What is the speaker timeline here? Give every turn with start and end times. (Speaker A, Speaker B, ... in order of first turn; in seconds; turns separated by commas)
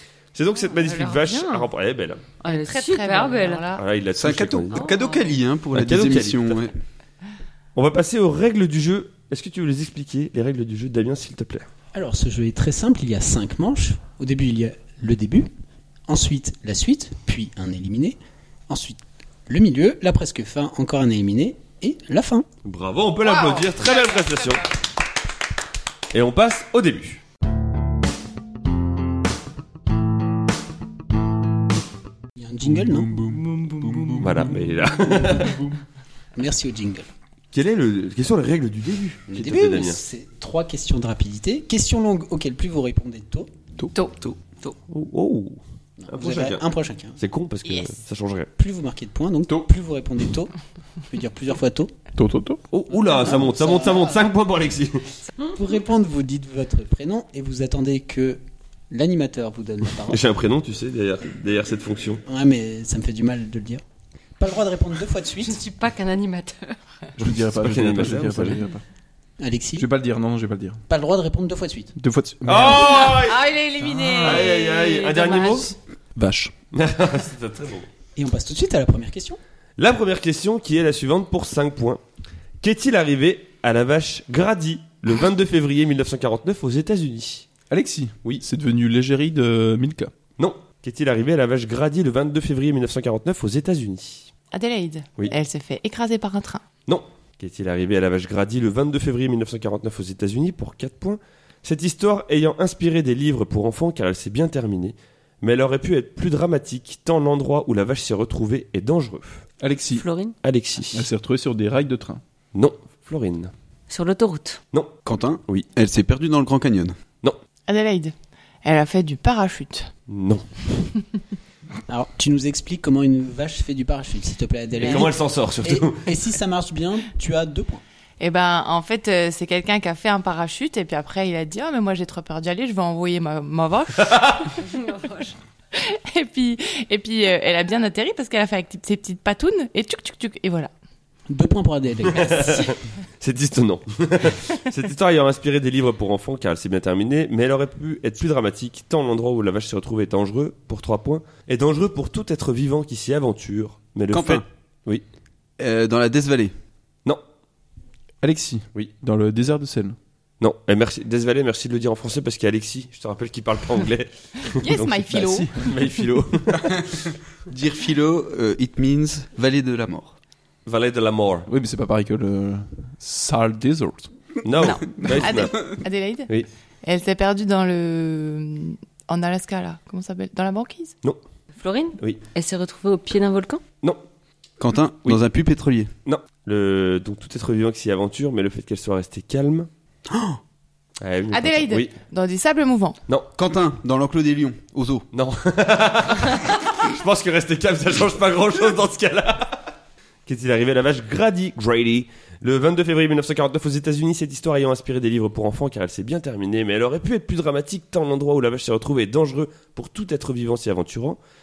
Speaker A: 0.3-2.2, Speaker B: 0.6-1.7, Speaker B: 2.4-3.7, Speaker C: 2.5-3.8, Speaker A: 3.8-4.9, Speaker D: 4.2-6.8, Speaker B: 4.7-5.4, Speaker A: 5.7-6.6, Speaker A: 7.8-11.7, Speaker E: 11.9-15.5, Speaker E: 16.1-22.5, Speaker A: 22.6-24.6, Speaker C: 23.2-24.7, Speaker A: 26.1-27.2, Speaker E: 32.4-33.4, Speaker F: 32.7-35.8, Speaker A: 34.2-35.6, Speaker E: 36.4-37.1, Speaker A: 37.5-40.0, Speaker E: 39.3-43.5, Speaker B: 43.9-44.8, Speaker A: 44.9-46.6, Speaker E: 46.0-47.2, Speaker A: 47.2-48.5, Speaker E: 48.6-50.5, Speaker E: 51.1-52.0, Speaker F: 52.1-52.6, Speaker A: 52.7-55.1, Speaker E: 53.2-54.1, Speaker E: 55.5-60.3, Speaker A: 60.1-62.2, Speaker E: 62.3-63.8, Speaker E: 64.4-65.6, Speaker B: 65.4-66.8, Speaker F: 67.2-68.8, Speaker A: 67.6-68.6, Speaker E: 69.4-69.9, Speaker F: 69.8-70.8, Speaker E: 70.9-71.9, Speaker F: 72.0-73.1, Speaker A: 72.5-73.5, Speaker B: 73.0-75.7, Speaker C: 73.1-74.5, Speaker A: 74.2-75.8, Speaker F: 76.2-76.5, Speaker A: 76.7-77.9, Speaker E: 78.2-79.4, Speaker A: 79.8-82.0, Speaker A: 82.6-87.5, Speaker F: 87.7-90.1, Speaker A: 90.4-94.3, Speaker C: 94.5-96.6, Speaker A: 96.9-109.5, Speaker F: 109.6-110.0, Speaker B: 109.9-110.3, Speaker A: 110.4-111.1, Speaker F: 110.9-112.2, Speaker A: 112.5-113.5, Speaker B: 113.9-114.6, Speaker A: 114.7-115.7, Speaker D: 115.0-117.0, Speaker C: 117.7-119.9, Speaker A: 120.1-120.7, Speaker E: 121.9-127.8, Speaker A: 124.8-126.1, Speaker C: 128.2-134.1, Speaker A: 134.0-134.6, Speaker B: 134.6-135.3, Speaker C: 135.7-140.7, Speaker E: 141.3-142.7, Speaker A: 142.1-155.0, Speaker D: 154.1-154.4, Speaker D: 155.6-156.5, Speaker F: 158.2-160.0, Speaker A: 160.4-166.7, Speaker C: 164.4-165.5, Speaker F: 165.1-165.7, Speaker D: 166.8-170.2, Speaker A: 170.7-171.5, Speaker F: 171.5-174.1, Speaker A: 174.4-175.7, Speaker C: 174.6-176.3, Speaker D: 175.0-175.3, Speaker C: 176.8-180.9, Speaker B: 181.6-183.6, Speaker D: 184.6-185.9, Speaker A: 186.1-189.7, Speaker D: 190.1-190.4, Speaker A: 191.0-191.9, Speaker C: 191.3-193.0, Speaker D: 193.4-195.1, Speaker A: 195.1-199.7, Speaker A: 200.3-211.2